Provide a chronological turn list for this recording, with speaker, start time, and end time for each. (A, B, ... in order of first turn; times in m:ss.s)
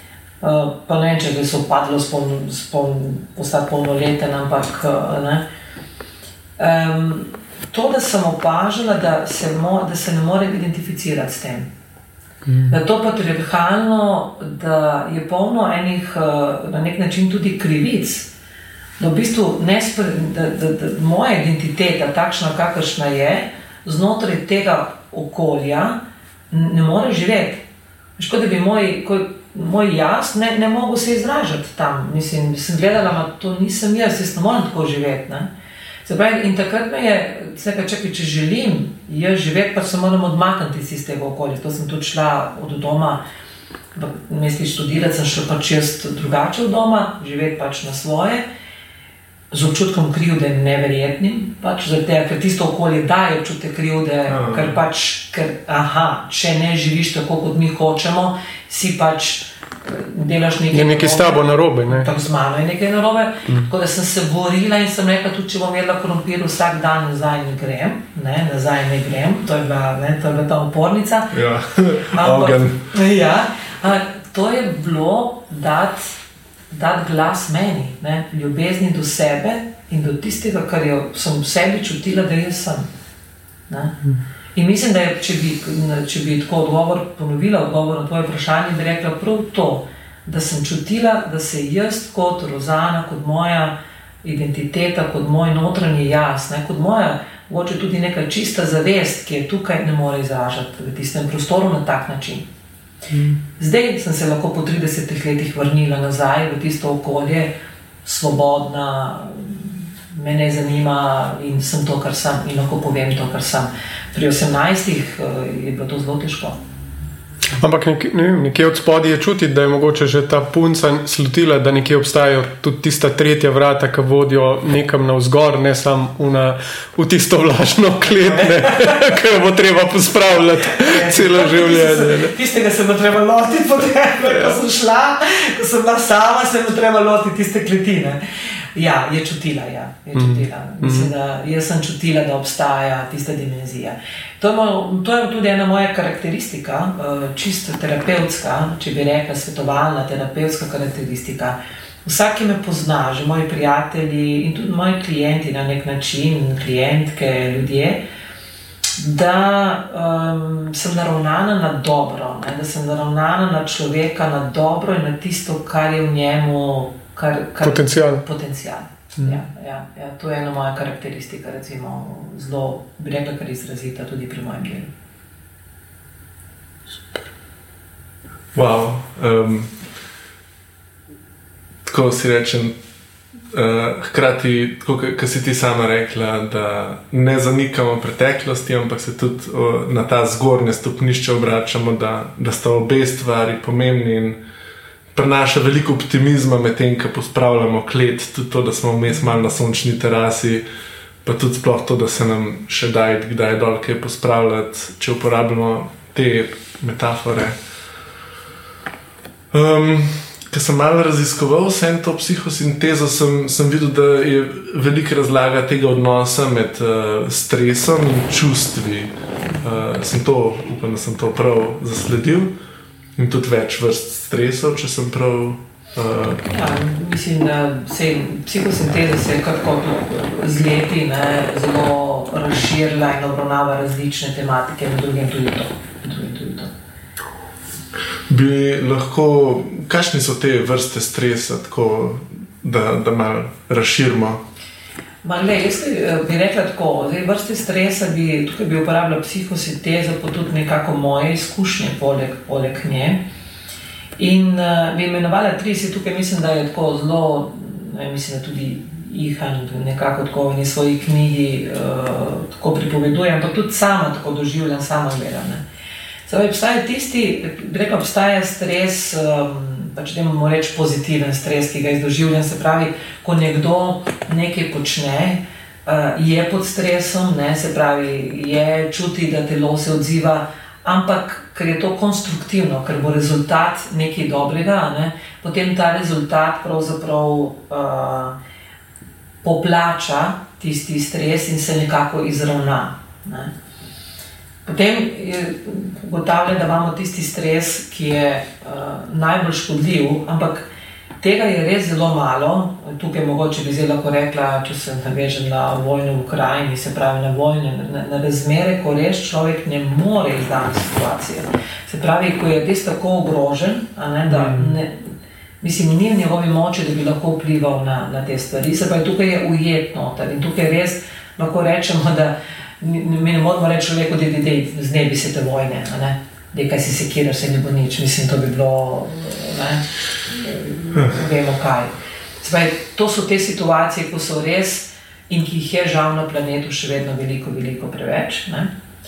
0:00.4-0:05.4 A
0:06.6-0:11.7 A
0:12.5-0:12.8 B
0:12.7-0:18.3 A
0:19.0-0:26.0 A
0:26.5-0:27.6 A
0:28.2-0:35.5 A
0:36.0-0:43.2 A
0:44.0-0:48.4 A
0:49.5-1:11.4 A
0:54.3-0:54.8 C
1:00.7-1:02.1 B
1:11.3-1:12.9 C
1:12.1-1:16.2 A
1:16.7-1:22.9 A
1:23.7-1:24.0 A
1:24.6-1:42.4 A
1:43.6-1:47.5 A
1:48.0-1:56.6 A
1:57.6-2:12.3 B
2:08.7-2:09.0 A
2:10.8-2:18.2 A
2:18.8-2:38.0 A
2:20.2-2:21.1 B
2:39.0-2:54.9 A
2:47.6-2:48.2 B
2:58.5-2:59.7 C
3:01.9-3:02.8 C
3:03.5-3:14.4 C
3:15.2-3:20.6 C
3:21.2-3:27.6 C
3:29.5-3:42.5 C
3:43.2-3:46.4 C
3:46.4-3:56.7 A
3:58.3-4:04.4 C
4:05.2-4:13.2 A
4:14.2-4:25.6 A
4:26.3-4:48.4 A
4:49.4-4:53.5 A
4:54.7-5:00.7 A
5:01.2-5:15.1 A
5:14.3-5:14.7 B
5:15.6-5:38.7 A